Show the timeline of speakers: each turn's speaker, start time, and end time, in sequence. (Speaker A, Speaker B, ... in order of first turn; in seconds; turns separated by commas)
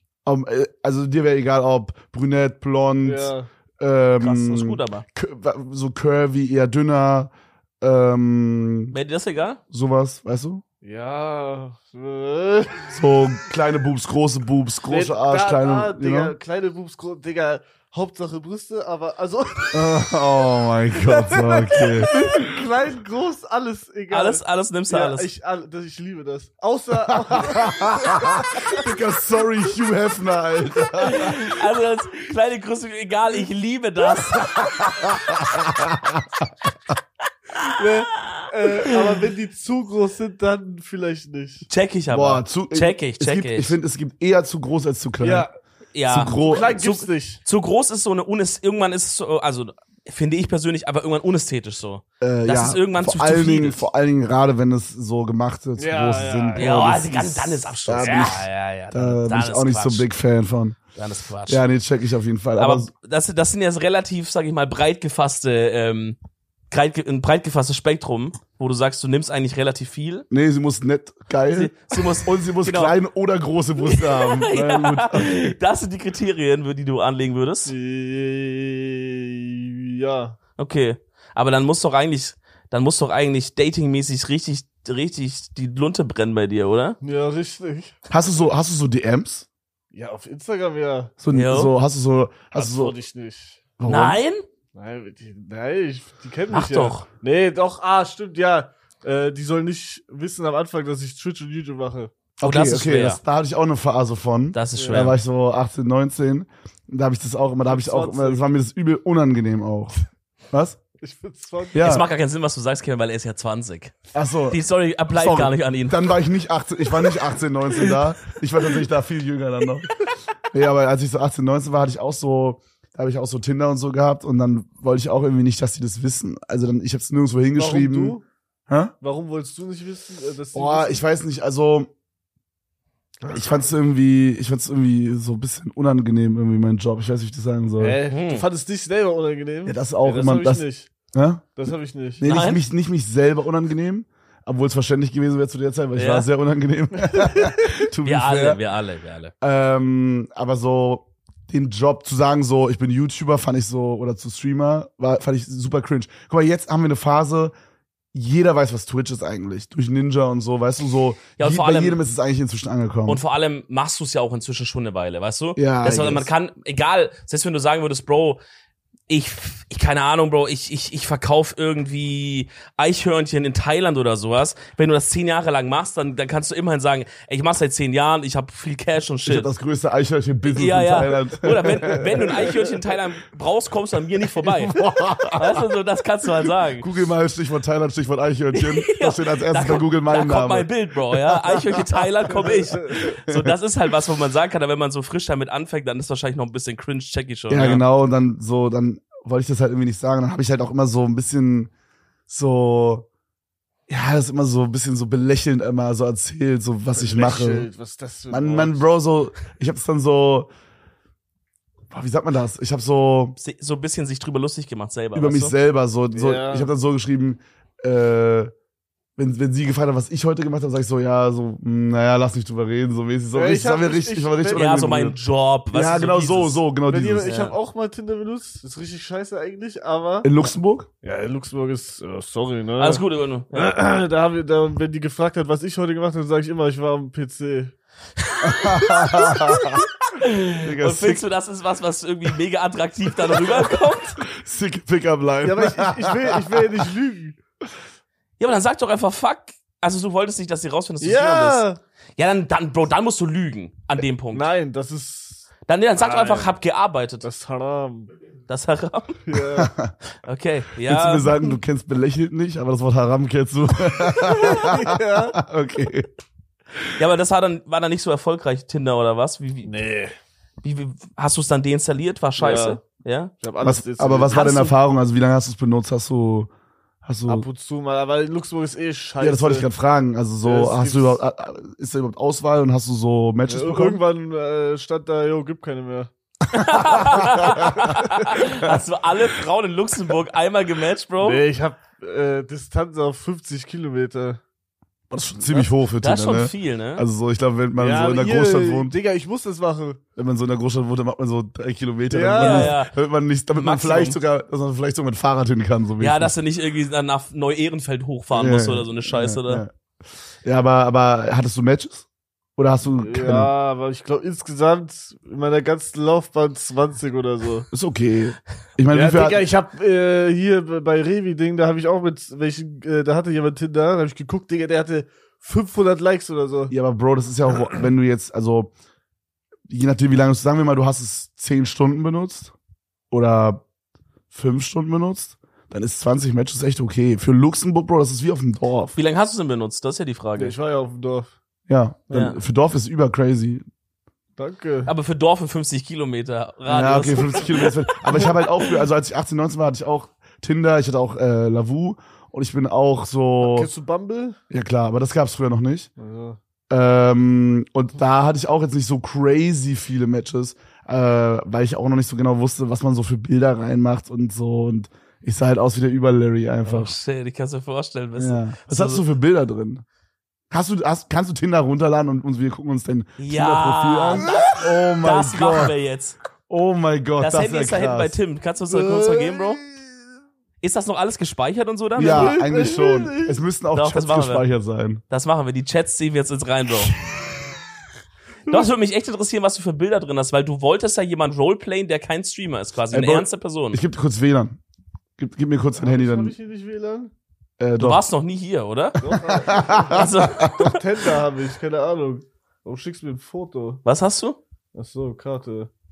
Speaker A: 0.2-8.9, Speaker B: 3.0-3.5, Speaker C: 4.2-5.0, Speaker C: 8.9-9.6, Speaker A: 9.7-10.6, Speaker B: 10.8-12.9, Speaker A: 12.9-16.3, Speaker B: 14.9-20.1, Speaker A: 19.7-22.4, Speaker B: 20.9-28.9, Speaker C: 24.1-25.3, Speaker A: 27.2-31.6, Speaker C: 31.0-34.8, Speaker A: 34.5-36.4, Speaker B: 37.7-41.7, Speaker C: 41.7-43.8, Speaker A: 42.1-45.5, Speaker B: 45.2-45.5, Speaker C: 45.9-53.9, Speaker A: 46.1-46.8, Speaker B: 46.4-47.4, Speaker A: 52.2-60.8, Speaker B: 55.8-57.0, Speaker C: 56.6-60.1, Speaker C: 61.0-61.6, Speaker A: 61.5-62.9, Speaker C: 62.6-66.2, Speaker C: 66.7-70.3, Speaker A: 70.3-75.6, Speaker C: 71.5-72.9, Speaker C: 73.8-77.7, Speaker B: 77.7-80.4, Speaker C: 80.6-87.0, Speaker B: 87.0-87.9, Speaker A: 88.1-89.5, Speaker B: 89.9-91.1, Speaker A: 91.2-93.0, Speaker C: 91.3-91.7, Speaker B: 92.5-93.6, Speaker A: 93.8-94.2, Speaker C: 93.9-94.4, Speaker B: 94.8-102.1, Speaker C: 96.5-97.0, Speaker A: 102.4-110.0, Speaker C: 102.4-103.2, Speaker C: 104.5-105.2, Speaker B: 104.7-105.1, Speaker B: 107.7-108.4, Speaker A: 110.5-110.8, Speaker B: 111.0-112.0, Speaker A: 111.7-112.0, Speaker C: 111.8-113.9, Speaker A: 114.1-114.6, Speaker C: 114.5-116.2, Speaker A: 115.2-119.9, Speaker A: 120.5-128.2, Speaker B: 127.5-128.2, Speaker A: 128.7-128.9, Speaker B: 129.0-131.0, Speaker A: 130.5-131.9, Speaker B: 133.2-133.7, Speaker A: 133.3-138.0, Speaker B: 137.8-140.9, Speaker C: 138.1-138.5, Speaker A: 139.7-141.6, Speaker B: 141.6-142.2, Speaker A: 142.2-148.6, Speaker C: 142.2-142.6, Speaker C: 146.0-146.3, Speaker B: 147.1-147.6, Speaker C: 148.0-149.3, Speaker A: 149.4-157.5, Speaker A: 158.1-163.2, Speaker C: 161.4-162.0, Speaker C: 163.1-168.4, Speaker A: 165.6-166.3, Speaker C: 169.1-179.5, Speaker A: 179.2-182.4, Speaker C: 180.5-186.9, Speaker B: 181.7-182.8, Speaker A: 184.6-185.6, Speaker A: 186.8-192.4, Speaker C: 188.5-197.8, Speaker B: 192.3-193.2, Speaker A: 193.3-193.5, Speaker A: 197.5-201.7, Speaker A: 202.3-203.1, Speaker A: 203.9-207.7, Speaker B: 206.9-208.8, Speaker A: 208.3-210.5, Speaker A: 211.9-213.4, Speaker C: 213.4-215.5, Speaker A: 215.2-218.5, Speaker B: 216.1-216.7, Speaker A: 219.2-227.3, Speaker B: 223.3-224.7, Speaker C: 224.5-226.6, Speaker B: 226.9-230.3, Speaker C: 227.2-227.6, Speaker A: 230.2-230.9, Speaker B: 231.0-237.8, Speaker C: 232.8-233.7, Speaker A: 238.4-239.9, Speaker C: 238.5-239.6, Speaker C: 240.2-244.2, Speaker A: 240.5-241.2, Speaker A: 244.2-246.7, Speaker B: 245.4-247.4, Speaker C: 248.4-254.5, Speaker B: 251.0-251.8, Speaker B: 254.3-256.6, Speaker C: 255.7-257.2, Speaker B: 257.2-258.1, Speaker C: 258.5-259.3, Speaker B: 259.2-259.7, Speaker A: 259.6-259.9, Speaker C: 260.2-261.5, Speaker A: 260.9-266.1, Speaker B: 264.1-265.4, Speaker C: 267.0-269.7, Speaker B: 269.6-270.1, Speaker C: 270.6-273.3, Speaker B: 272.4-272.8, Speaker B: 273.4-274.7, Speaker A: 273.6-276.5, Speaker C: 274.3-274.7, Speaker A: 277.0-277.5, Speaker B: 277.3-279.7, Speaker A: 279.2-284.0, Speaker B: 280.4-281.2, Speaker B: 283.5-286.1, Speaker C: 286.5-291.4, Speaker A: 286.6-288.7, Speaker B: 291.2-294.4, Speaker A: 295.1-299.0, Speaker C: 296.0-297.0, Speaker B: 297.8-300.0, Speaker A: 300.1-306.3, Speaker B: 302.1-302.8, Speaker C: 302.4-302.9, Speaker C: 303.5-304.2, Speaker C: 306.0-309.6, Speaker A: 308.3-309.7, Speaker A: 310.4-312.1, Speaker A: 312.6-313.5, Speaker B: 312.9-317.7, Speaker A: 317.7-319.5, Speaker B: 318.9-326.7, Speaker A: 326.7-328.7, Speaker A: 329.7-332.5, Speaker A: 333.1-333.6, Speaker A: 334.3-339.0, Speaker C: 339.0-340.5, Speaker B: 340.4-341.3, Speaker A: 341.7-343.6, Speaker C: 342.1-342.4, Speaker B: 344.4-344.9, Speaker C: 344.9-348.7, Speaker A: 346.7-353.7, Speaker B: 353.4-354.4, Speaker A: 354.5-355.9, Speaker B: 356.0-356.4, Speaker A: 356.7-366.9, Speaker C: 366.6-369.0, Speaker A: 368.2-369.8, Speaker A: 370.5-375.7, Speaker C: 373.2-376.2, Speaker A: 376.5-378.1, Speaker C: 377.2-379.6, Speaker B: 378.7-379.9, Speaker C: 380.6-382.4, Speaker A: 382.0-385.0, Speaker B: 382.0-383.4, Speaker C: 383.7-384.4, Speaker C: 385.1-386.9, Speaker C: 388.5-393.8, Speaker A: 392.9-394.6, Speaker A: 395.2-396.3, Speaker B: 395.8-397.1, Speaker A: 397.6-398.0, Speaker C: 397.8-399.0, Speaker B: 399.0-403.8, Speaker A: 399.1-400.6, Speaker C: 399.9-400.8, Speaker C: 403.9-404.4, Speaker B: 404.7-405.7